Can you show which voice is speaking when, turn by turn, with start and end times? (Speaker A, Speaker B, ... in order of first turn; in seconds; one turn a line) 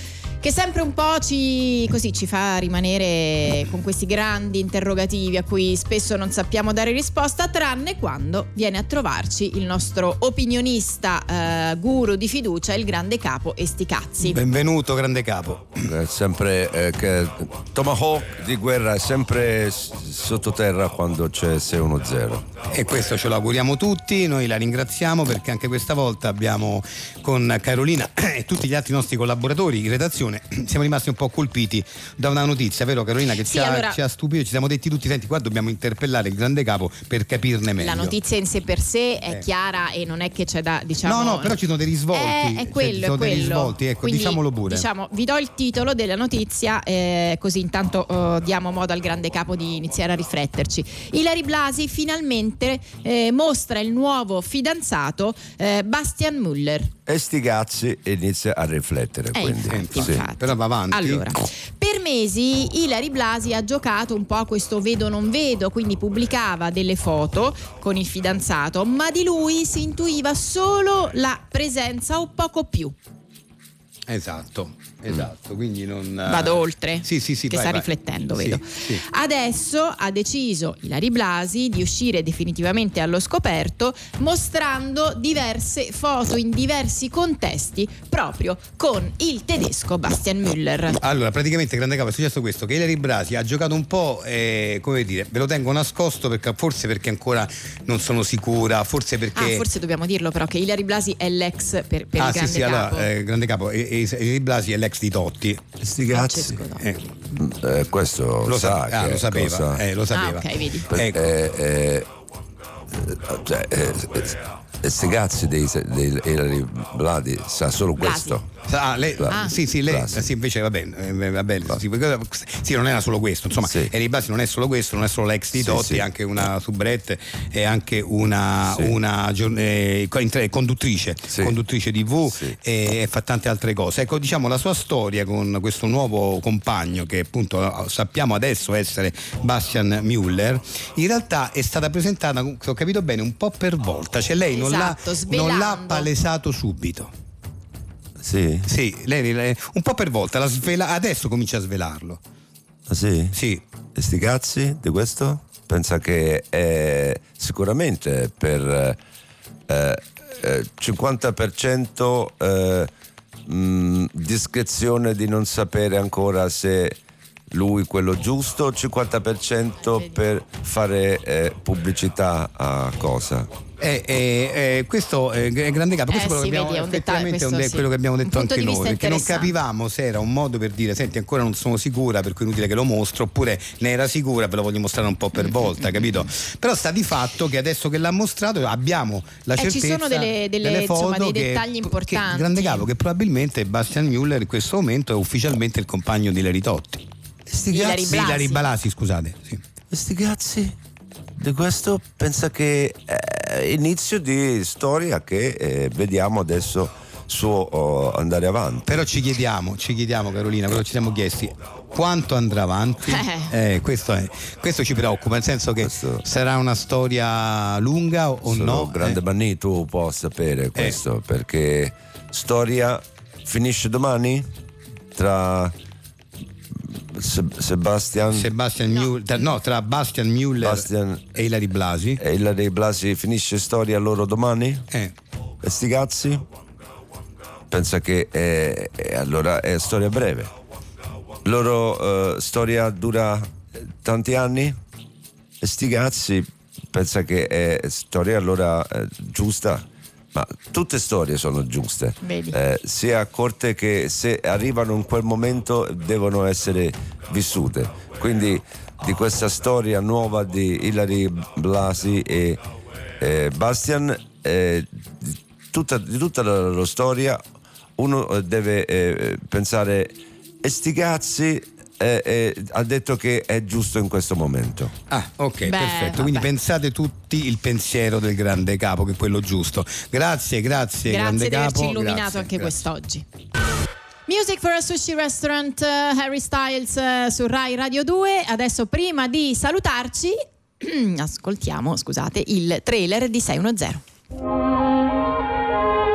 Speaker A: 0.4-14.4
Speaker B: 14.2-15.8
Speaker C: 15.8-22.5
Speaker B: 22.7-38.1
Speaker A: 33.4-34.0
Speaker A: 37.8-41.5
Speaker B: 41.0-44.9
Speaker A: 42.1-56.9
Speaker C: 57.0-60.2
Speaker A: 59.3-72.9
Speaker B: 59.7-61.2
Speaker B: 74.1-79.0
Speaker A: 76.2-91.0
Speaker B: 91.0-99.6
Speaker A: 99.3-103.1
Speaker B: 102.2-105.6
Speaker C: 105.8-106.6
Speaker A: 106.1-106.8
Speaker C: 107.3-109.8
Speaker B: 108.5-111.3
Speaker A: 110.1-110.9
Speaker C: 110.9-112.1
Speaker C: 112.9-118.5
Speaker A: 118.0-118.4
Speaker B: 118.6-147.1
Speaker C: 119.2-120.3
Speaker A: 119.3-119.5
Speaker C: 123.6-123.9
Speaker C: 125.5-126.0
Speaker C: 128.7-128.9
Speaker C: 132.3-132.6
Speaker A: 144.5-146.1
Speaker C: 148.2-148.7
Speaker B: 148.7-152.2
Speaker C: 152.9-153.3
Speaker B: 153.3-153.6
Speaker C: 153.9-159.0
Speaker C: 159.7-162.9
Speaker C: 163.4-167.0
Speaker C: 167.5-173.5
Speaker B: 173.8-197.0
Speaker A: 176.1-179.5
Speaker A: 185.4-186.3
Speaker A: 189.6-192.8
Speaker C: 197.5-198.3
Speaker A: 197.7-198.6
Speaker B: 197.7-199.6
Speaker C: 199.9-200.8
Speaker C: 201.4-209.0
Speaker B: 208.8-219.2
Speaker A: 213.1-213.5
Speaker C: 215.8-216.2
Speaker C: 218.4-224.5
Speaker C: 225.1-225.7
Speaker C: 226.8-228.5
Speaker B: 228.3-232.2
Speaker A: 228.9-229.2
Speaker C: 230.6-231.4
Speaker C: 232.2-234.9
Speaker C: 235.6-236.4
Speaker C: 237.7-240.5
Speaker C: 241.4-244.8
Speaker C: 245.6-262.6
Speaker A: 252.2-252.6
Speaker C: 263.2-267.4
Speaker C: 268.0-274.9
Speaker B: 275.1-282.8
Speaker A: 275.6-276.5
Speaker A: 281.1-283.2
Speaker A: 284.3-294.0